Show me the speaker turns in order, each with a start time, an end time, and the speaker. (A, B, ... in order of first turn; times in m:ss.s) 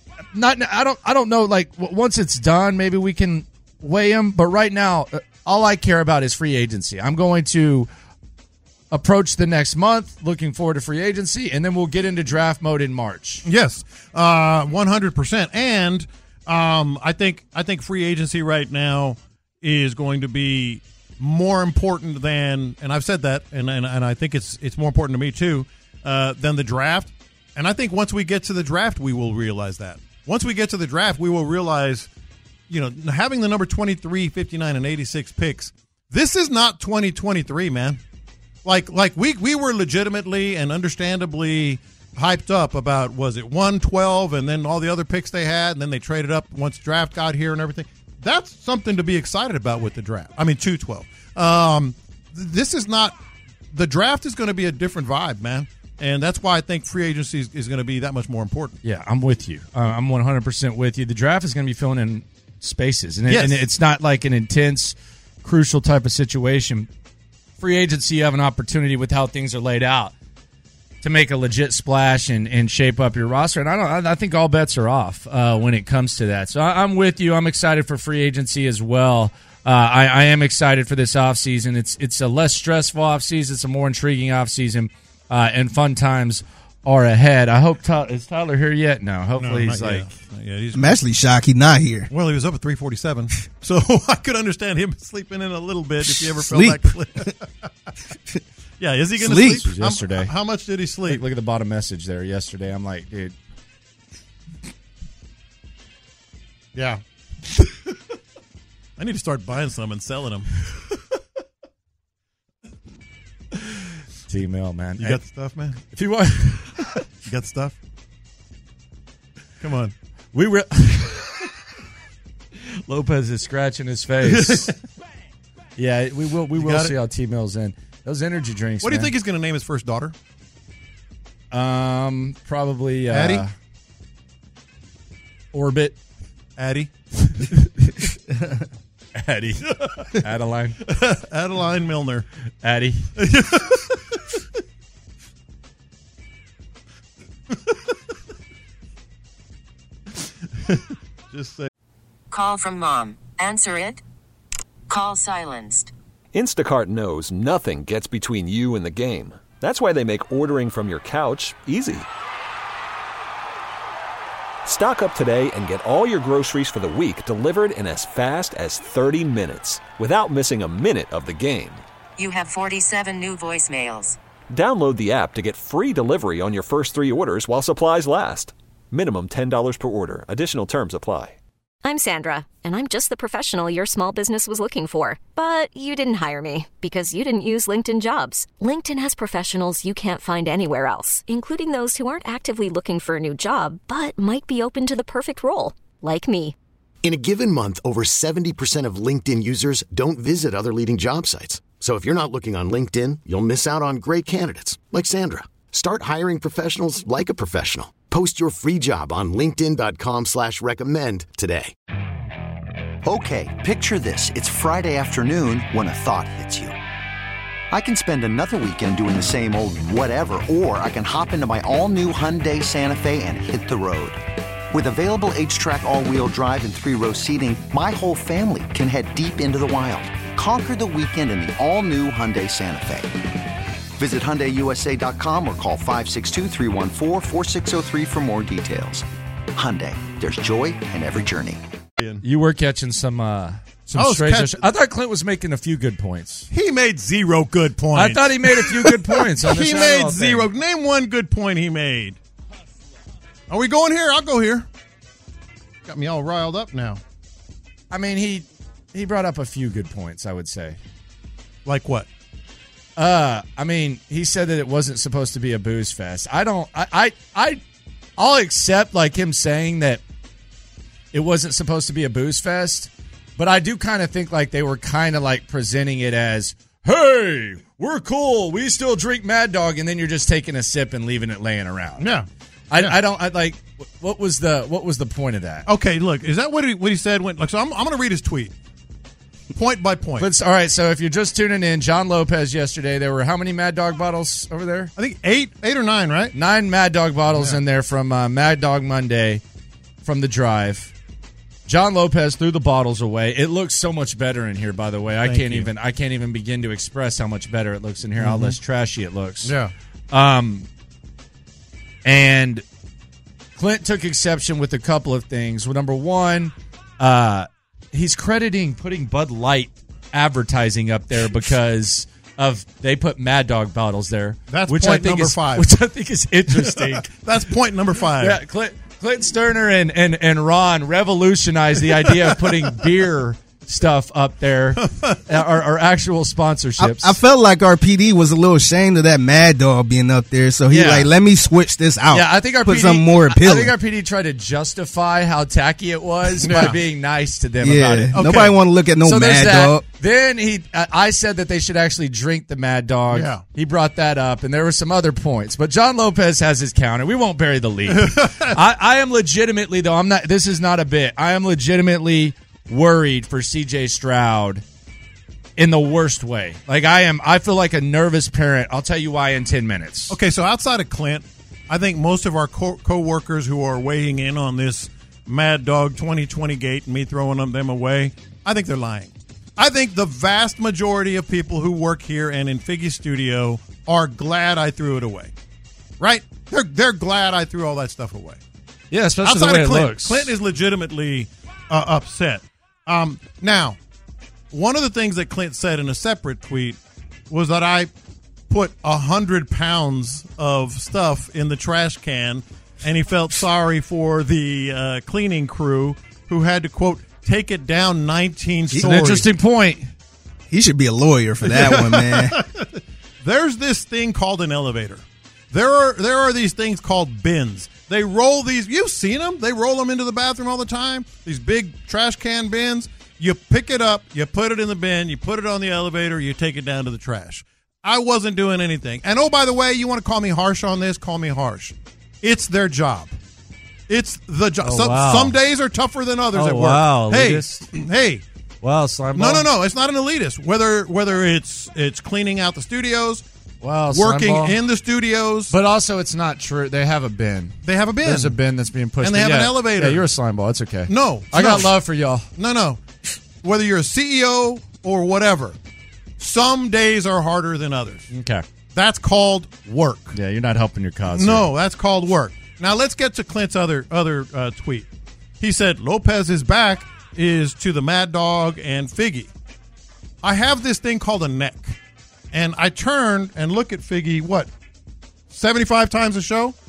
0:00.3-0:07.9 A
0:08.9-0:13.4 A
0:13.4-0:32.1 B
0:32.7-0:38.0 B
0:38.6-0:53.2 B
0:53.7-0:58.8 B
0:58.8-1:06.9 A
1:03.3-1:03.6 B
1:07.6-1:10.1 A
1:11.0-1:30.1 A
1:29.4-1:31.0 B
1:30.8-1:32.1 C
1:32.1-1:37.5 B
1:36.0-1:37.2 C
1:38.8-1:41.2 B
1:39.2-1:39.6 C
1:39.4-1:40.3 A
1:41.1-1:43.4 A
1:46.8-1:47.0 B
1:49.0-1:50.7 B
1:54.3-1:55.2 A
1:55.0-1:55.8 B
1:55.9-1:56.9 A
1:57.2-1:57.8 B
1:59.6-1:59.9 B
2:00.3-2:01.5 A
2:02.9-2:04.7 A
2:04.2-2:04.8 B
2:05.8-2:09.1 A
2:06.6-2:07.0 B
2:08.8-2:10.2 B
2:11.5-2:13.5 A
2:13.1-2:13.4 B
2:15.5-2:16.0 A
2:16.6-2:16.9 B
2:19.2-2:20.8 A
2:20.9-2:22.3 B
2:22.6-2:23.1 A
2:23.2-2:24.2 B
2:30.6-2:31.7 B
2:32.3-2:34.0 D
2:34.9-2:35.9 D
2:36.3-2:42.1 E
2:44.6-2:51.8 E
2:52.2-2:54.2 D
2:54.5-3:01.4 E
3:01.8-3:16.6 F
3:17.0-3:31.7 G
3:33.0-3:36.8 H
3:37.7-3:53.2 H
3:54.0-4:01.6 H
4:02.0-4:02.2 B
4:02.2-4:06.5 A
4:04.0-4:04.6 B
4:06.5-4:12.2 B
4:07.9-4:10.5 A
4:13.5-4:14.7 B
4:15.9-4:17.0 B
4:17.9-4:20.8 A
4:21.6-4:22.1 B
4:23.0-4:27.6 A
4:28.2-4:30.0 A
4:31.1-4:42.1 A
4:42.0-4:43.0 B
4:42.7-4:45.7 A
4:45.7-4:48.5 B
4:49.5-4:50.3 B
4:50.2-4:54.9 A
4:55.0-4:56.4 B
4:56.3-4:59.4 A
5:00.0-5:00.9 A
5:01.7-5:09.6 A
5:05.2-5:05.7 B
5:08.2-5:08.6 B
5:09.4-5:09.7 B
5:10.1-5:10.7 A
5:12.0-5:12.6 A
5:13.6-5:27.1 A
5:24.5-5:25.7 B
5:26.5-5:28.4 B
5:28.2-5:37.2 A
5:32.1-5:32.4 B
5:34.8-5:35.2 B
5:36.8-5:43.8 C
5:40.7-5:41.1 A
5:42.1-6:04.6 A
5:46.4-5:46.8 B
5:47.6-5:49.8 C
5:48.1-5:48.6 B
5:53.1-5:53.4 B
5:57.9-5:58.6 B
6:05.6-6:10.2 A
6:10.1-6:25.3 B
6:26.0-6:28.4 B
6:28.9-6:30.3 A
6:29.2-6:33.8 B
6:34.5-6:36.8 B
6:37.3-6:37.9 B
6:38.5-6:49.3 B
6:48.7-6:49.9 A
6:50.5-6:52.4 C
6:51.4-7:13.2 B
7:13.9-7:18.2 B
7:14.6-7:15.4 A
7:16.3-7:17.7 A
7:18.6-7:19.5 A
7:19.1-7:23.2 B
7:23.6-7:24.6 A
7:23.9-7:25.5 B
7:25.5-7:32.3 A
7:27.6-7:28.4 B
7:29.0-7:30.1 B
7:30.9-7:31.7 B
7:32.4-7:32.8 B
7:33.4-7:35.6 B
7:36.2-7:38.1 B
7:38.1-7:38.4 A
7:38.7-7:40.2 B
7:40.1-7:41.5 A
7:41.1-7:44.9 B
7:45.4-7:49.3 B
7:50.2-7:51.8 B
7:52.3-7:54.5 B
7:55.3-7:56.6 B